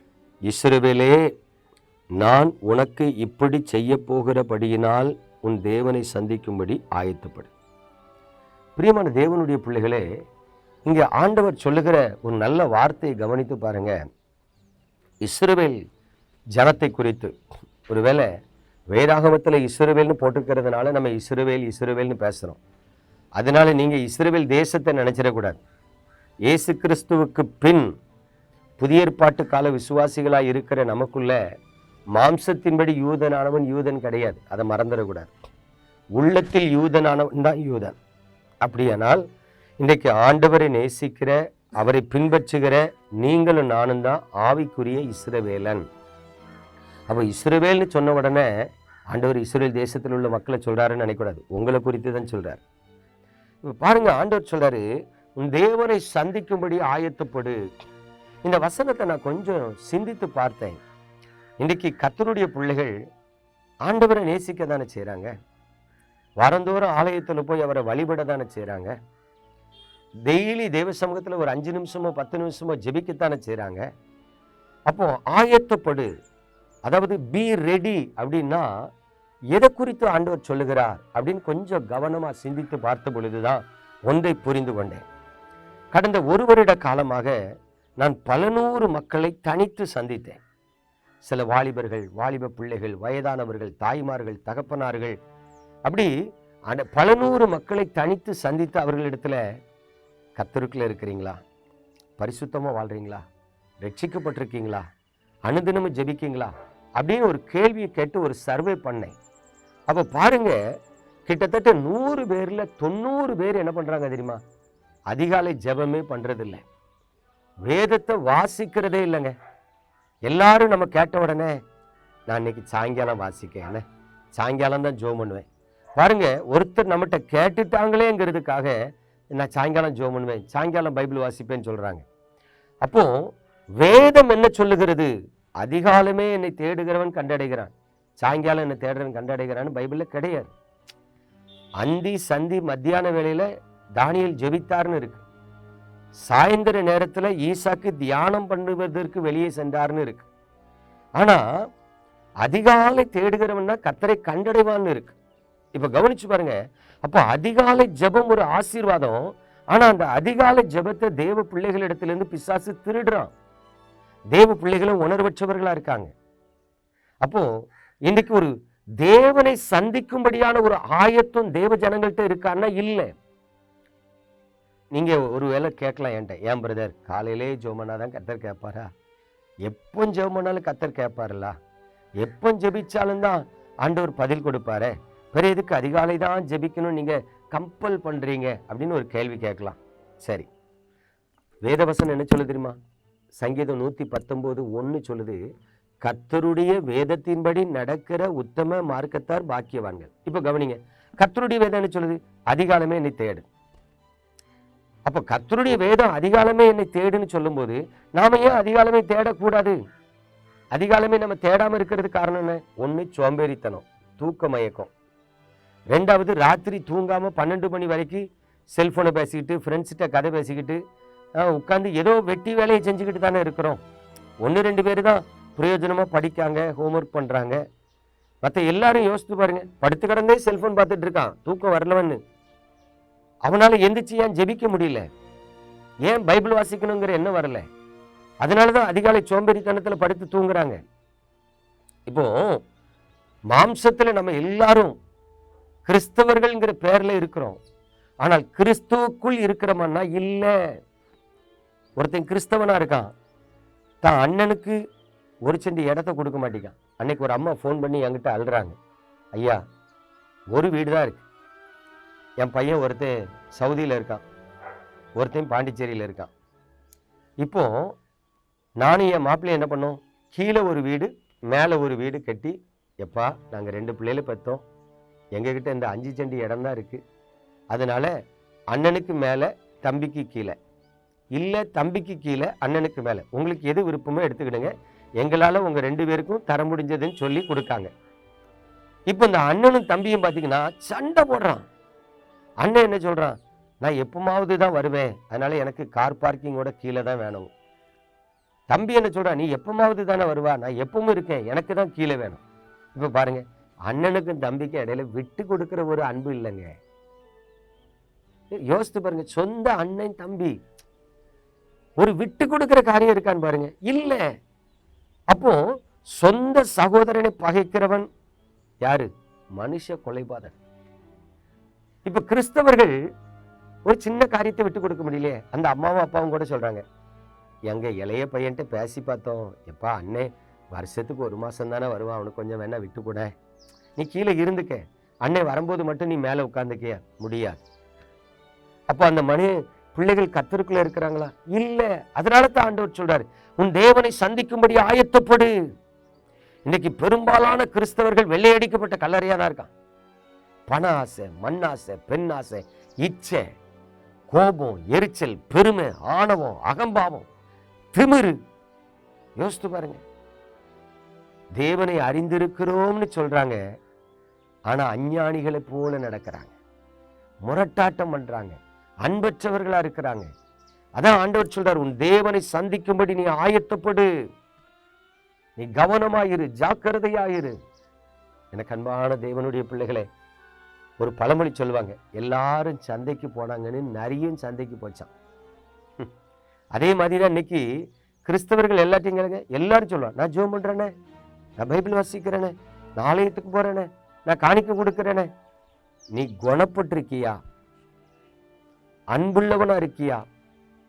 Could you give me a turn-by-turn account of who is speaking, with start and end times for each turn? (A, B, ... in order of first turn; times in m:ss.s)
0:00.5-0:01.2 A
0:02.2-0:07.5 A
0:08.8-0:10.0 A
0:10.8-0:14.0 A
0:15.2-0:15.8 A
0:16.5-0:17.3 A
0:17.9-0:18.3 A
0:18.9-0:22.6 A
0:23.4-0:25.6 A
0:26.5-0:27.9 A
0:28.8-0:31.4 A
0:32.1-0:35.3 A
0:36.2-0:38.0 A
0:38.6-0:39.2 A
0:39.8-0:45.8 A
0:47.1-0:48.5 A
0:49.1-0:52.6 A
0:53.6-0:54.8 A
0:55.4-0:57.6 A
0:58.4-1:00.8 A
1:01.6-1:02.9 A
1:03.8-1:05.3 A
1:06.4-1:08.9 A
1:10.3-1:13.8 A
1:14.9-1:16.1 A
1:16.8-1:18.7 A
1:19.5-1:25.0 A
1:25.9-1:27.4 A
1:28.0-1:30.4 A
1:31.2-1:35.2 A
1:35.8-1:36.1 A
1:36.7-1:39.4 A
1:40.4-1:41.4 A
1:42.2-1:43.2 A
1:43.8-1:44.8 A
1:45.5-1:49.1 A
1:49.9-1:50.6 A
1:51.2-1:54.4 A
1:55.1-1:56.6 A
1:57.6-1:59.3 A
2:00.3-2:01.6 A
2:02.3-2:03.8 A
2:04.3-2:08.8 A
2:09.3-2:12.0 A
2:12.8-2:20.5 A
2:21.8-2:23.5 A
2:24.0-2:25.2 A
2:26.3-2:30.3 A
2:32.4-2:35.2 A
2:35.7-2:43.3 A
2:44.3-2:46.1 A
2:47.2-2:47.5 A
2:48.1-2:53.1 A
2:54.9-2:58.9 A
2:59.6-3:01.5 A
3:02.2-3:10.5 A
3:11.6-3:12.8 A
3:13.4-3:15.4 A
3:16.0-3:23.5 A
3:25.0-3:29.8 A
3:30.7-3:34.9 A
3:35.9-3:40.8 A
3:41.4-3:43.8 A
3:44.4-3:47.6 A
3:48.4-3:52.2 A
3:53.4-3:55.1 A
3:56.0-3:57.7 A
3:58.4-4:00.8 A
4:02.1-4:02.6 A
4:03.5-4:05.0 A
4:05.8-4:07.6 A
4:08.2-4:10.7 A
4:12.0-4:13.1 A
4:14.0-4:14.8 A
4:15.4-4:18.8 A
4:19.3-4:19.6 A
4:20.5-4:21.2 A
4:22.4-4:24.2 A
4:25.2-4:26.3 A
4:27.4-4:27.9 A
4:28.8-4:34.6 A
4:35.3-4:37.0 A
4:37.7-4:38.1 A
4:38.7-4:40.6 A
4:41.3-4:47.9 A
4:49.1-4:51.6 A
4:52.6-4:57.5 A
4:58.7-5:02.4 A
5:02.9-5:06.8 A
5:08.6-5:10.6 A
5:12.0-5:14.3 A
5:15.3-5:18.1 A
5:18.8-5:20.6 A
5:22.0-5:22.9 A
5:23.8-5:26.8 A
5:27.7-5:33.3 A
5:34.0-5:37.6 A
5:38.9-5:45.5 A
5:46.7-5:49.7 A
5:50.7-5:53.5 A
5:54.3-5:57.3 A
5:57.9-5:58.4 A
5:59.4-6:00.0 A
6:01.6-6:03.6 A
6:04.7-6:06.6 A
6:07.4-6:10.3 A
6:11.0-6:14.1 A
6:15.6-6:17.6 A
6:18.5-6:20.1 A
6:21.0-6:25.1 A
6:26.7-6:27.7 A
6:28.2-6:30.9 A
6:31.6-6:35.3 A
6:36.1-6:37.4 A
6:39.1-6:40.2 A